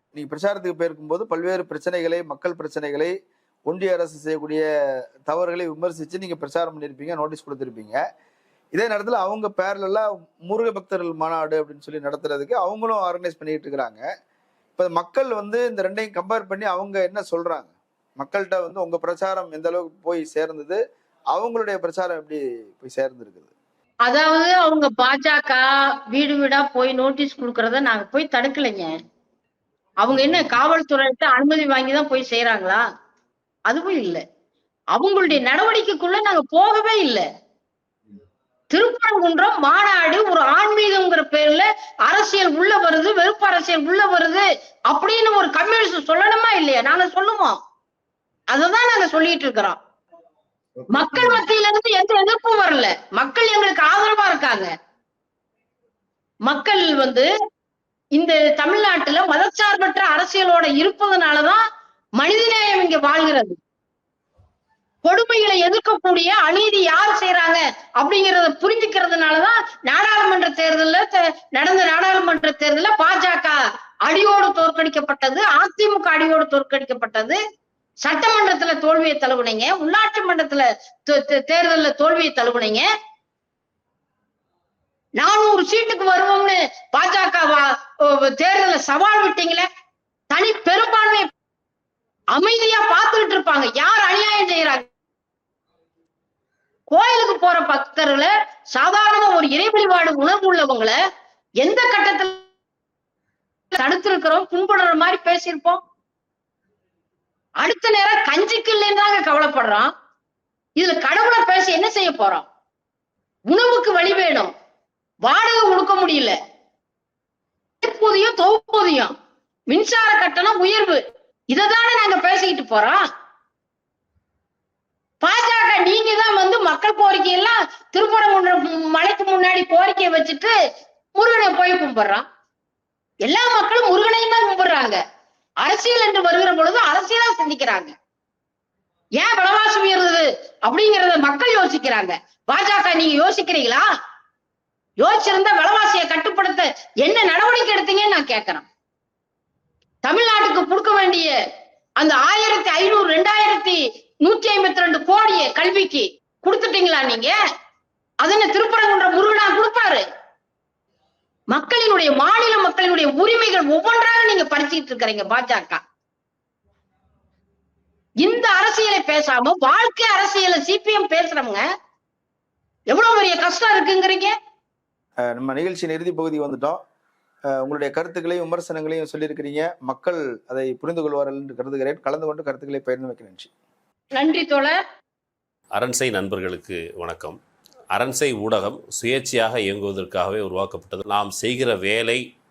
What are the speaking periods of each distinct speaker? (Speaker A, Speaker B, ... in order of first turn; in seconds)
Speaker A: 0.1-3.1, 3.7-4.6, 5.2-8.0, 8.7-14.0, 14.8-20.8, 21.3-23.5, 30.1-30.4, 50.8-51.4, 175.2-176.8, 177.5-183.5
Speaker B: 24.1-28.9, 30.0-32.8, 33.7-34.2, 34.9-37.2, 38.7-47.6, 48.5-49.8, 50.9-54.7, 56.4-57.3, 58.1-61.6, 62.2-63.6, 65.0-77.4, 78.0-82.9, 85.2-89.7, 90.3-91.3, 92.3-94.8, 96.9-101.0, 101.6-102.4, 103.7-105.8, 107.6-109.9, 110.8-112.4, 113.5-114.5, 115.2-116.3, 117.8-119.1, 119.7-123.0, 125.2-130.5, 131.2-132.2, 133.2-135.0, 135.6-137.9, 139.2-143.9, 145.0-148.6, 150.0-151.3, 152.0-157.3, 158.2-160.0, 161.5-165.8, 168.2-171.7, 172.9-174.3, 184.2-184.8
Speaker C: 185.7-187.4, 187.9-192.2